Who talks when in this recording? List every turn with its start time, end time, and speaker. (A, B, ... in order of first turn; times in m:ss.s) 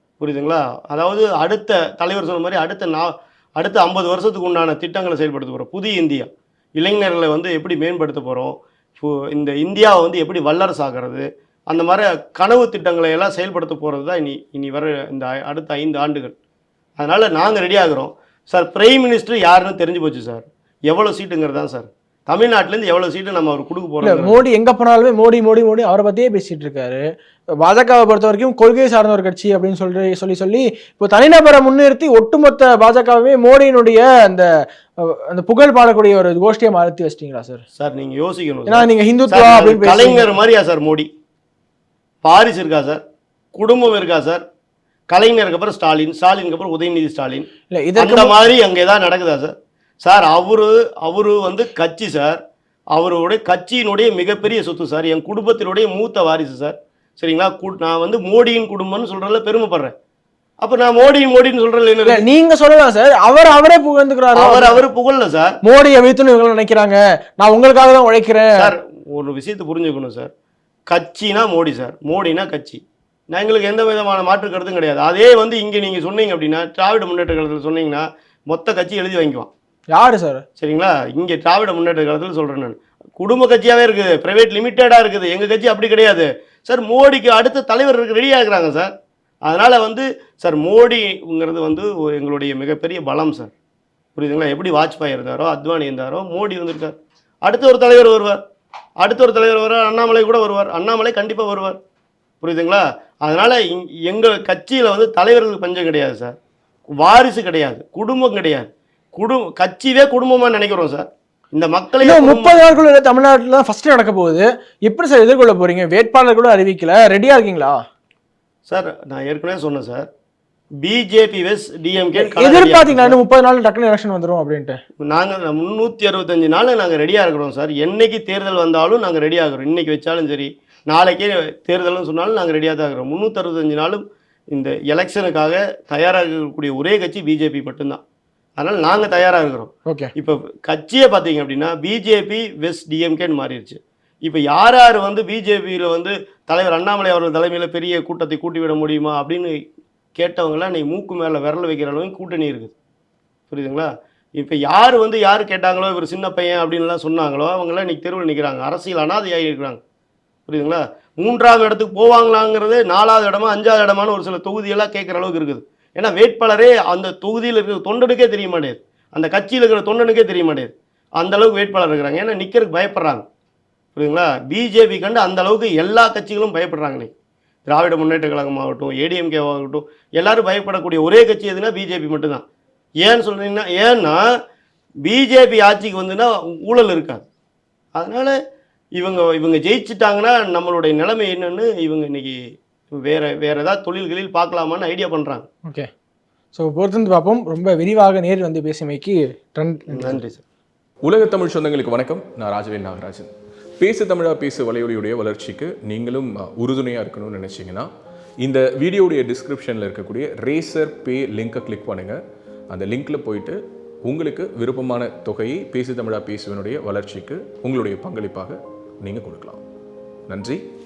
0:00.2-0:16.4 A
0:17.0-0:24.4 A
0:24.0-0:27.0 B
0:27.6-0:37.6 B
0:37.8-0:41.1 A
0:38.7-0:40.3 B
0:42.2-0:43.0 A
0:43.5-0:44.4 A
0:45.1-0:47.5 A
0:47.7-0:48.3 B
0:48.0-0:52.4 A
0:52.9-0:59.9 A
1:00.6-1:02.2 A
1:02.1-1:04.8 B
1:04.3-1:05.6 A
1:05.6-1:08.7 B
1:08.6-1:10.3 A
1:10.9-1:19.5 A
1:20.0-1:20.4 B
1:20.6-1:28.9 A
1:29.5-1:33.5 A
1:34.2-1:38.4 A
1:39.0-1:41.8 A
1:42.4-1:46.4 A
1:47.0-1:52.8 A
1:52.0-1:57.8 B
1:58.7-2:00.1 A
2:00.8-2:03.2 A
2:02.2-2:04.8 B
2:05.0-2:18.0 A
2:18.6-2:29.6 A
2:30.2-2:32.7 A
2:33.5-2:39.8 A
2:40.5-2:53.2 A
2:54.0-2:57.1 A
2:57.7-3:02.4 A
3:03.0-3:04.2 A
3:05.0-3:07.2 A
3:08.0-3:08.4 A
3:09.0-3:12.4 A
3:12.9-3:15.5 A
3:16.6-3:20.2 B
3:19.9-3:20.4 A
3:21.0-3:27.9 C
3:28.4-3:32.2 C
3:32.7-3:39.6 C
3:40.3-3:40.6 C